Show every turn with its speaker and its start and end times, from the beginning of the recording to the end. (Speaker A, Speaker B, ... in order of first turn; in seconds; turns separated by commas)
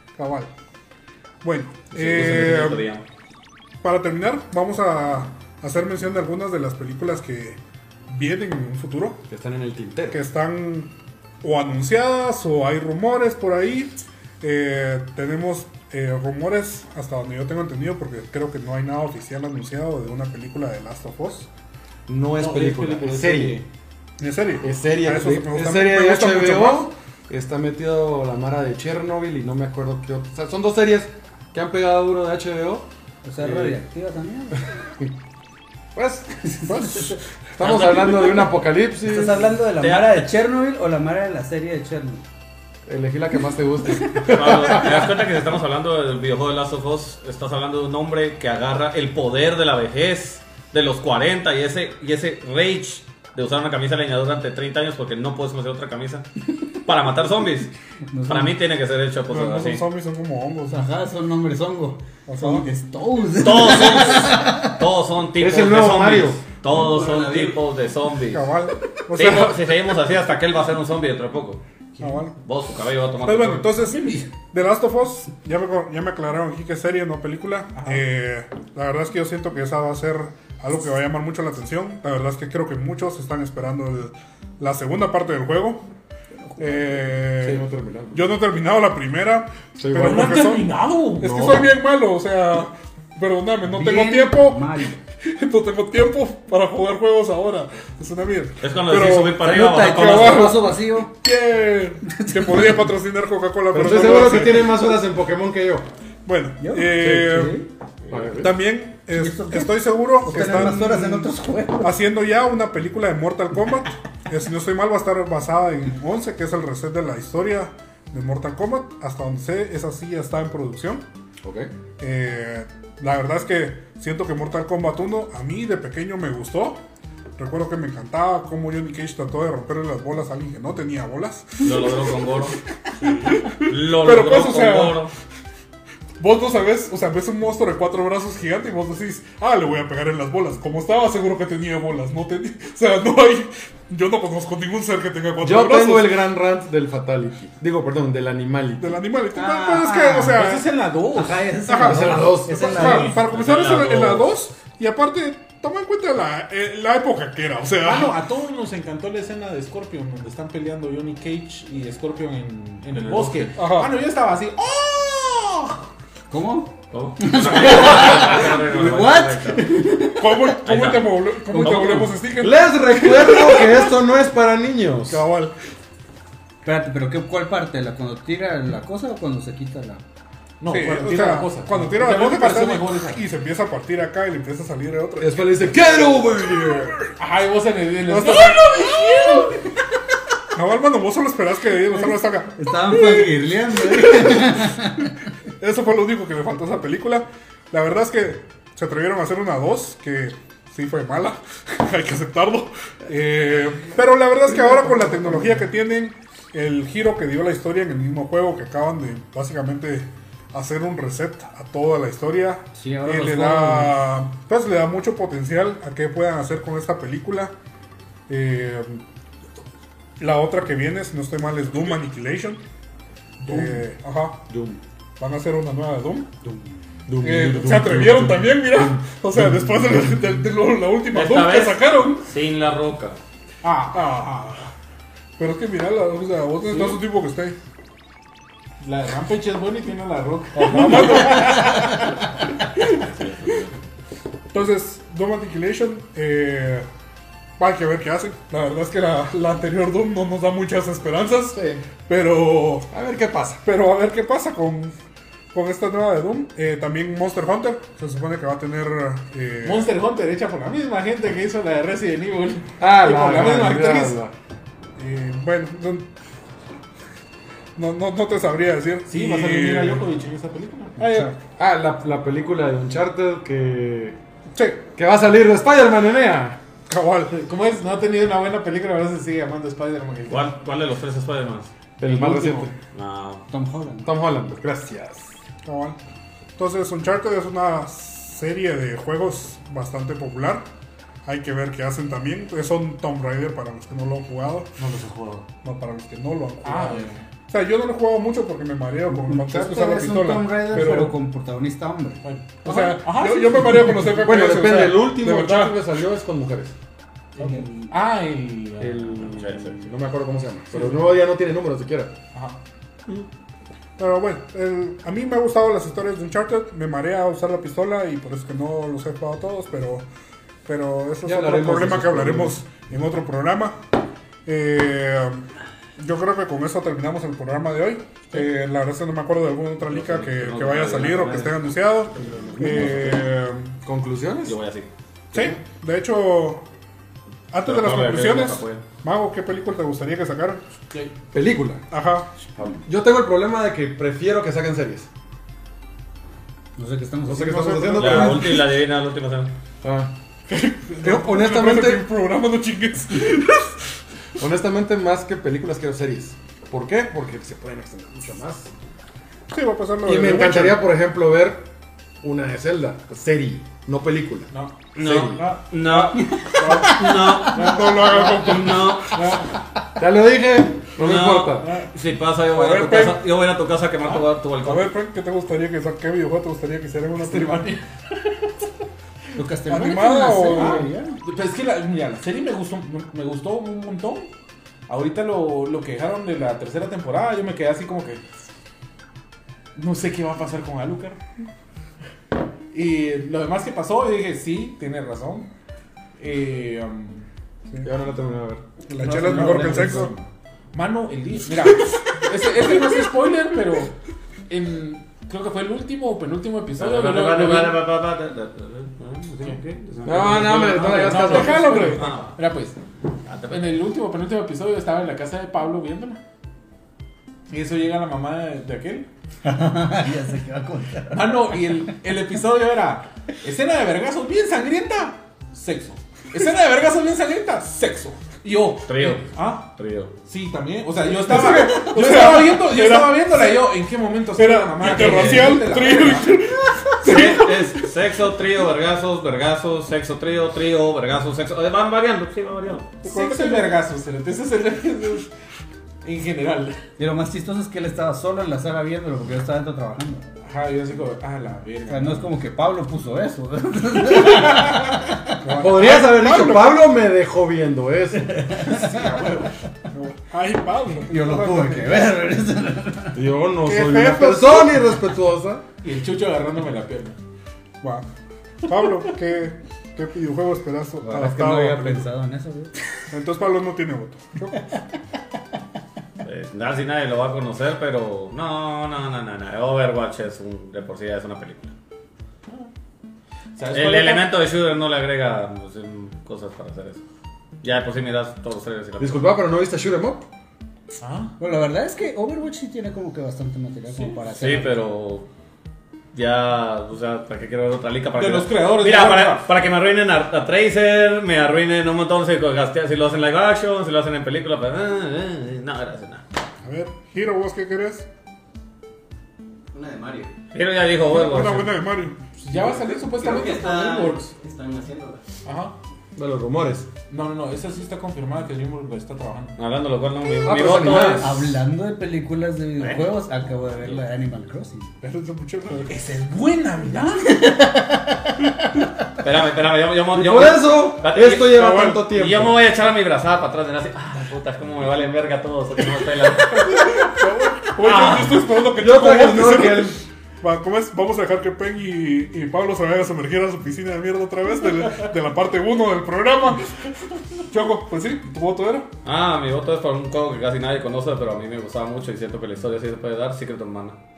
Speaker A: 0.1-0.5, Speaker A: 1.4-2.8, Speaker B: 1.9-3.0, Speaker A: 3.8-9.2, Speaker C: 9.3-10.2, Speaker A: 10.1-21.5, Speaker C: 22.1-23.6, Speaker D: 22.4-23.6, Speaker A: 24.2-26.9, Speaker C: 24.6-32.9, Speaker E: 33.2-34.6, Speaker C: 33.4-33.8, Speaker C: 35.9-36.8, Speaker E: 36.4-37.1, Speaker A: 36.7-37.2, Speaker C: 37.6-39.5, Speaker B: 37.6-38.5, Speaker E: 39.0-42.2, Speaker B: 39.8-40.2, Speaker C: 42.9-45.2, Speaker B: 44.2-57.7, Speaker E: 58.1-58.5, Speaker B: 58.3-59.8, Speaker A: 59.3-60.9, Speaker E: 60.7-64.8, Speaker A: 62.2-62.7, Speaker B: 63.4-68.5, Speaker C: 65.4-66.4, Speaker E: 66.7-67.5, Speaker A: 68.3-69.8, Speaker B: 69.1-71.6, Speaker D: 72.0-72.2, Speaker A: 72.0-72.3, Speaker B: 72.4-73.7, Speaker A: 73.2-85.8, Speaker D: 73.9-74.2, Speaker D: 77.7-78.0, Speaker E: 86.5-87.1, Speaker A: 86.6-104.9, Speaker C: 87.4-88.3, Speaker C: 89.8-90.4, Speaker D: 89.9-91.7, Speaker E: 93.6-95.0, Speaker B: 98.6-100.6, Speaker E: 99.4-101.1, Speaker E: 102.1-102.9, Speaker C: 103.7-105.8, Speaker A: 106.2-107.6, Speaker E: 106.6-107.7, Speaker C: 107.0-107.2, Speaker C: 108.1-108.5, Speaker A: 108.3-121.0, Speaker E: 109.1-111.9, Speaker C: 121.4-121.7, Speaker A: 122.0-126.8, Speaker A: 127.4-132.2, Speaker B: 131.6-132.6, Speaker A: 133.0-135.1, Speaker B: 133.5-135.1, Speaker A: 136.2-146.2, Speaker C: 145.4-149.0, Speaker A: 148.8-150.7, Speaker E: 149.3-150.4, Speaker D: 150.2-151.6, Speaker E: 151.1-153.2, Speaker A: 151.7-158.2, Speaker C: 151.8-152.8, Speaker D: 152.7-153.1, Speaker B: 153.1-154.3, Speaker D: 157.8-165.8, Speaker B: 162.9-163.5, Speaker A: 163.6-163.9, Speaker E: 166.3-170.5, Speaker B: 166.9-169.7, Speaker A: 170.1-173.7, Speaker B: 170.6-172.1, Speaker C: 172.4-175.2, Speaker A: 175.1-175.5, Speaker E: 176.6-180.0, Speaker D: 180.6-183.2, Speaker A: 180.7-185.9, Speaker C: 185.2-187.1, Speaker D: 187.2-189.7, Speaker A: 188.1-189.5, Speaker A: 190.5-194.9, Speaker E: 192.5-195.2, Speaker A: 195.6-217.5, Speaker C: 204.5-205.6, Speaker E: 212.7-214.1, Speaker A: 218.3-219.0, Speaker A: 220.2-222.6, Speaker D: 223.4-223.8, Speaker A: 223.4-224.5, Speaker C: 224.5-224.8, Speaker A: 225.2-226.3, Speaker C: 226.4-229.4, Speaker A: 227.2-232.2, Speaker B: 231.1-233.2, Speaker D: 233.6-234.5, Speaker A: 233.9-234.7, Speaker A: 235.4-237.6, Speaker D: 236.6-237.0, Speaker D: 238.8-242.2, Speaker A: 240.6-242.0, Speaker E: 240.8-241.9, Speaker B: 242.8-243.7, Speaker A: 244.5-246.9, Speaker A: 247.6-252.9, Speaker C: 251.5-251.8, Speaker C: 252.9-253.6, Speaker A: 253.6-254.9, Speaker A: 255.5-259.9, Speaker D: 259.6-264.2, Speaker C: 262.8-264.3, Speaker A: 265.0-266.1, Speaker A: 267.8-270.0, Speaker D: 269.1-271.3, Speaker A: 271.0-271.3, Speaker C: 271.4-274.2, Speaker A: 274.5-274.8, Speaker C: 274.9-276.6, Speaker A: 276.9-277.4, Speaker D: 277.3-280.5, Speaker B: 280.3-281.7, Speaker C: 282.0-282.7, Speaker D: 282.1-282.6, Speaker B: 282.9-283.4, Speaker E: 283.5-284.1, Speaker C: 284.0-285.3, Speaker A: 285.6-286.0, Speaker A: 286.6-290.7, Speaker A: 291.2-294.9, Speaker D: 294.8-295.5, Speaker A: 295.6-301.1, Speaker D: 296.6-297.2, Speaker E: 299.1-302.2, Speaker D: 302.2-304.2, Speaker A: 302.6-305.8, Speaker C: 304.2-306.7, Speaker D: 307.4-309.1, Speaker C: 308.8-312.2, Speaker B: 309.1-309.8, Speaker D: 310.7-311.1, Speaker D: 312.3-312.6, Speaker A: 314.0-320.1, Speaker A: 320.6-323.8, Speaker C: 321.2-322.6, Speaker A: 324.4-325.4, Speaker A: 326.0-333.7, Speaker B: 329.9-331.7, Speaker B: 332.2-332.7, Speaker C: 332.2-333.2, Speaker C: 333.8-334.6, Speaker B: 334.4-334.9, Speaker C: 335.3-335.6, Speaker A: 335.3-336.6, Speaker A: 337.5-340.6, Speaker B: 337.6-338.8, Speaker C: 341.3-341.8, Speaker A: 341.9-342.3, Speaker C: 342.6-345.1, Speaker E: 346.8-348.3, Speaker C: 347.2-348.8, Speaker A: 347.4-348.4, Speaker B: 347.9-349.5, Speaker C: 349.8-350.1, Speaker A: 350.5-353.9, Speaker C: 351.0-352.1, Speaker C: 354.4-358.7, Speaker A: 359.5-360.9, Speaker C: 360.0-361.7, Speaker C: 362.2-365.4, Speaker D: 364.5-369.5, Speaker B: 364.9-369.3, Speaker E: 366.1-367.6, Speaker A: 366.6-366.9, Speaker A: 367.5-369.4, Speaker C: 370.0-371.7, Speaker B: 371.0-374.9, Speaker D: 371.6-371.9, Speaker A: 372.5-373.2, Speaker A: 374.6-377.7, Speaker D: 377.2-378.7, Speaker E: 379.3-381.2, Speaker A: 379.7-380.9, Speaker D: 380.5-384.3, Speaker D: 384.9-388.2, Speaker D: 389.8-391.2, Speaker D: 392.7-395.5, Speaker D: 396.2-397.3, Speaker C: 397.8-398.6, Speaker A: 398.9-400.1, Speaker D: 399.0-403.9, Speaker D: 404.5-407.8, Speaker B: 406.8-412.4, Speaker D: 409.4-412.8, Speaker C: 410.0-411.9, Speaker A: 411.1-412.1, Speaker B: 413.3-413.6, Speaker D: 413.4-416.2, Speaker D: 417.5-419.1, Speaker E: 419.4-421.8, Speaker D: 421.1-429.7, Speaker B: 428.9-430.1, Speaker D: 430.2-436.4, Speaker A: 431.2-433.6, Speaker A: 434.4-437.9, Speaker B: 434.8-435.8, Speaker B: 437.0-442.9, Speaker D: 437.1-437.4, Speaker A: 443.0-443.7, Speaker D: 443.0-445.3, Speaker D: 446.0-446.8, Speaker E: 447.0-450.2, Speaker D: 450.4-452.3, Speaker E: 451.9-455.0, Speaker D: 454.0-455.0, Speaker A: 455.4-456.9, Speaker C: 455.4-458.5, Speaker E: 458.4-458.7, Speaker D: 458.5-459.5, Speaker A: 459.9-462.2, Speaker E: 461.1-463.2, Speaker C: 463.1-465.6, Speaker A: 463.6-464.8, Speaker D: 465.8-467.2, Speaker A: 467.8-468.1, Speaker A: 468.7-472.1, Speaker D: 468.7-469.1, Speaker E: 471.0-472.8, Speaker A: 473.1-474.6, Speaker B: 476.2-481.7, Speaker D: 483.6-484.3, Speaker B: 483.7-487.0, Speaker B: 487.6-489.2, Speaker C: 489.0-490.3, Speaker D: 491.0-491.3, Speaker E: 491.4-494.8, Speaker D: 493.9-494.2, Speaker B: 494.4-495.3, Speaker B: 496.1-506.2, Speaker D: 498.1-499.5, Speaker A: 506.6-508.1, Speaker F: 509.7-510.3, Speaker B: 510.5-511.7, Speaker A: 511.1-512.2, Speaker D: 512.4-514.4, Speaker F: 512.9-515.2, Speaker D: 515.4-515.8, Speaker C: 516.1-516.9, Speaker D: 517.1-519.6, Speaker B: 519.6-521.5, Speaker C: 520.4-521.5, Speaker E: 521.0-524.9, Speaker B: 522.8-523.1, Speaker A: 525.0-526.0, Speaker D: 525.9-527.6, Speaker E: 527.2-528.7, Speaker B: 529.2-537.1, Speaker C: 530.1-532.6, Speaker A: 531.5-532.0, Speaker A: 536.9-546.9, Speaker B: 537.7-538.4, Speaker C: 538.0-540.0, Speaker A: 547.5-548.9, Speaker B: 549.0-554.0